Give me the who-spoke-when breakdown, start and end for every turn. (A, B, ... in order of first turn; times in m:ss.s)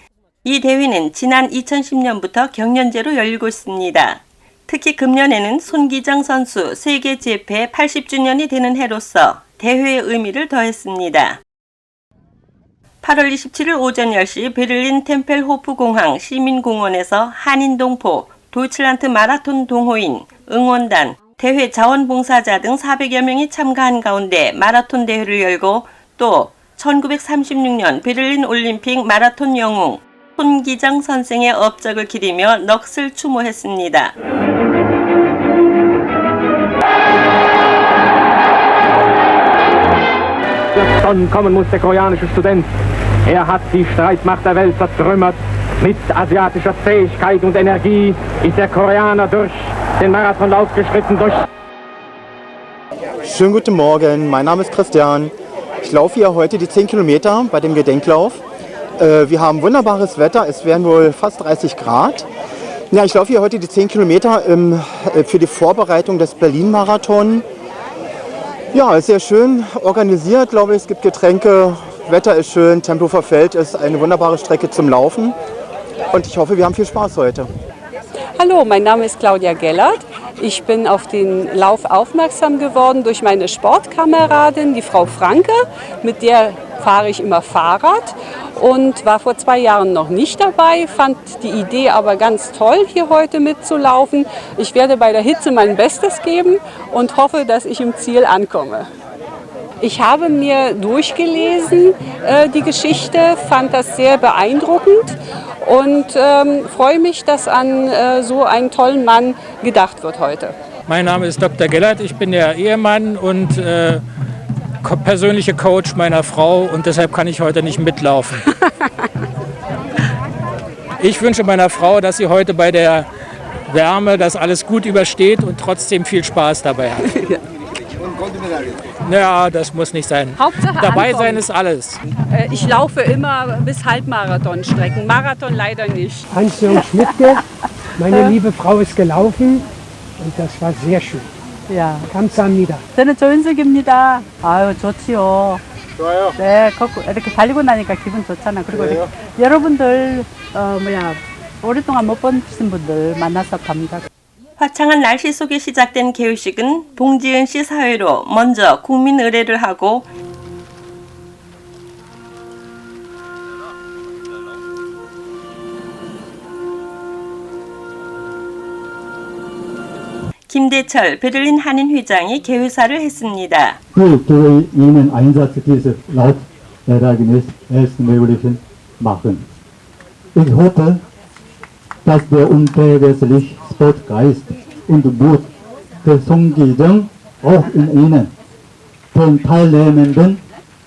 0:00.4-0:11.4 A
0:13.0-0:34.2 A
0:40.7-0:42.7 B
0:43.3-0:51.4 B
0:53.3-0:55.3 C
0:55.8-0:58.4 C
0:59.0-1:02.2 C
1:02.9-1:07.4 C
1:08.7-1:15.4 C
1:16.1-1:17.5 C
1:18.4-1:38.9 D
1:39.8-1:50.6 D
1:50.9-1:54.0 E
1:54.8-1:58.4 E
1:58.6-1:58.9 D
2:01.0-2:03.1 E
2:03.7-2:07.0 E
2:07.0-2:07.4 D
2:09.1-2:12.0 E
2:10.4-2:11.5 D
2:12.2-2:16.3 D
2:16.3-2:17.4 F
2:18.0-2:19.7 F
2:20.2-2:21.3 F
2:21.7-2:22.1 G
2:22.1-2:22.9 F
2:22.9-2:25.6 G
2:26.4-2:34.1 G
2:34.6-2:40.1 A
2:50.5-2:53.8 A
2:53.9-2:59.5 H
3:00.4-3:01.0 H
3:02.0-3:05.5 H
3:06.0-3:08.3 H
3:09.1-3:10.4 H